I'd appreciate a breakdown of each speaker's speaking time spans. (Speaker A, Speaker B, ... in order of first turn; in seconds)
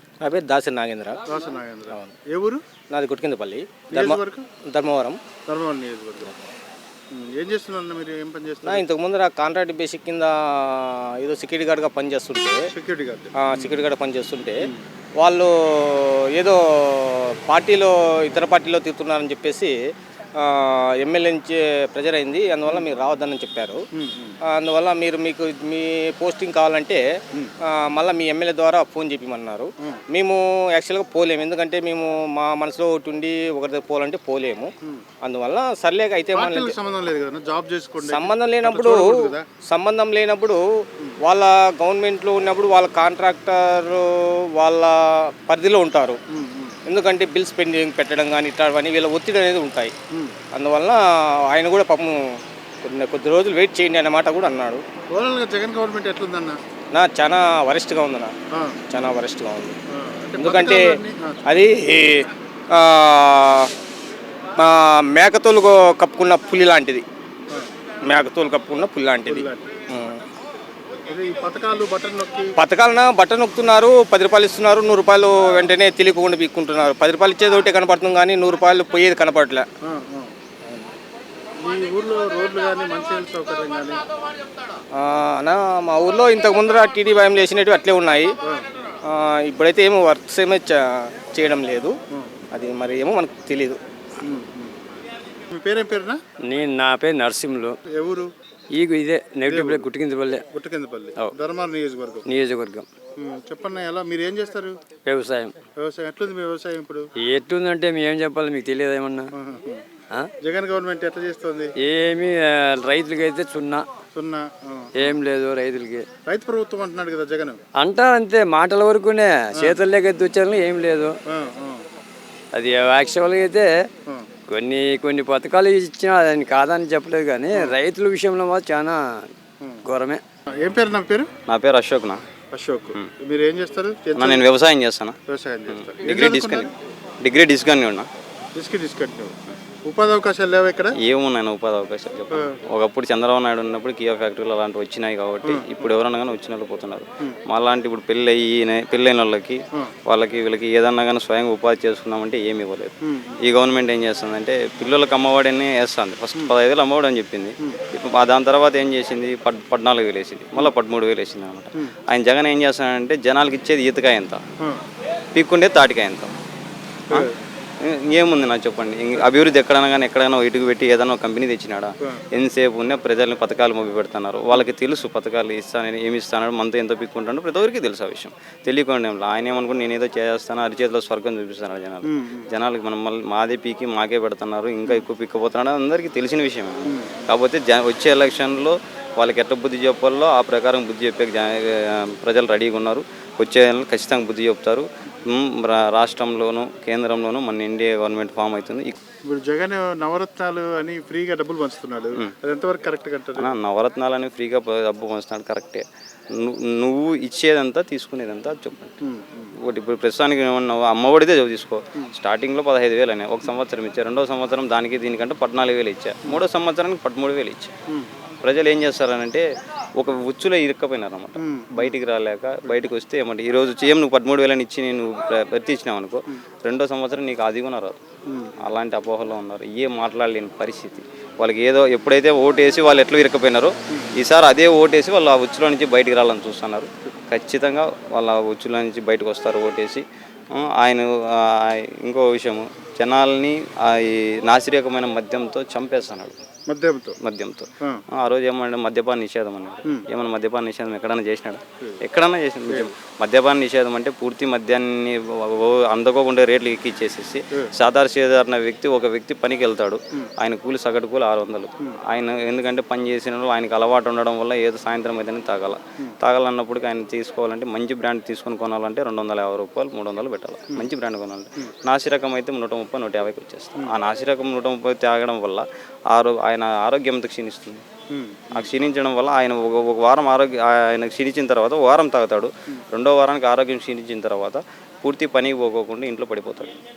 Speaker A: 0.2-1.2, 2.9-5.2, 8.6-12.6, 13.4-19.7, 20.4-23.9, 24.4-27.0, 27.6-36.8, 38.0-46.2, 46.9-49.9, 50.5-54.8, 56.9-58.4, 58.9-59.8, 60.4-63.7, 64.6-67.0, 68.0-70.2, 72.6-79.7, 84.9-88.3, 89.0-92.0, 92.5-93.8
Speaker B: 1.3-2.6, 3.9-4.5, 5.5-6.3, 7.1-8.8, 12.7-13.8, 23.9-24.4, 36.3-39.4, 46.3-46.8, 50.1-50.4, 55.1-56.6, 58.5-59.1, 59.9-61.7, 69.2-69.8, 71.1-72.5, 79.8-80.8, 81.5-84.0, 92.1-92.4, 94.2-94.7, 95.5-96.2, 97.9-98.3, 99.5-99.8, 100.5-102.2, 103.2-104.7, 105.8-107.1, 109.3-109.8, 110.4-111.7, 114.1-115.2, 116.2-117.6, 121.3-121.8, 129.6-129.8, 130.6-131.3, 132.5-134.5, 135.3-136.7, 138.5-140.9, 142.3-142.6, 145.4-145.9, 153.0-153.4, 167.1-167.4, 182.0-182.5, 186.8-187.1, 199.3-203.5, 209.0-209.5, 221.4-222.0, 228.3-228.5, 233.9-234.2, 246.7-247.2, 278.1-278.7
Speaker C: 96.4-97.7, 98.7-100.4, 102.3-102.9, 105.0-105.5, 107.2-109.3, 111.8-113.8, 115.0-116.0, 117.8-121.1, 122.5-123.7, 124.5-129.3, 129.8-130.2
Speaker D: 131.5-132.2, 134.1-135.2, 135.7-136.7, 137.2-138.1, 141.0-164.4, 165.3-166.3, 167.8-198.9, 203.3-208.9, 209.6-217.7, 218.4-219.4, 220.0-228.0, 228.6-246.4, 247.2-277.8, 278.5-286.8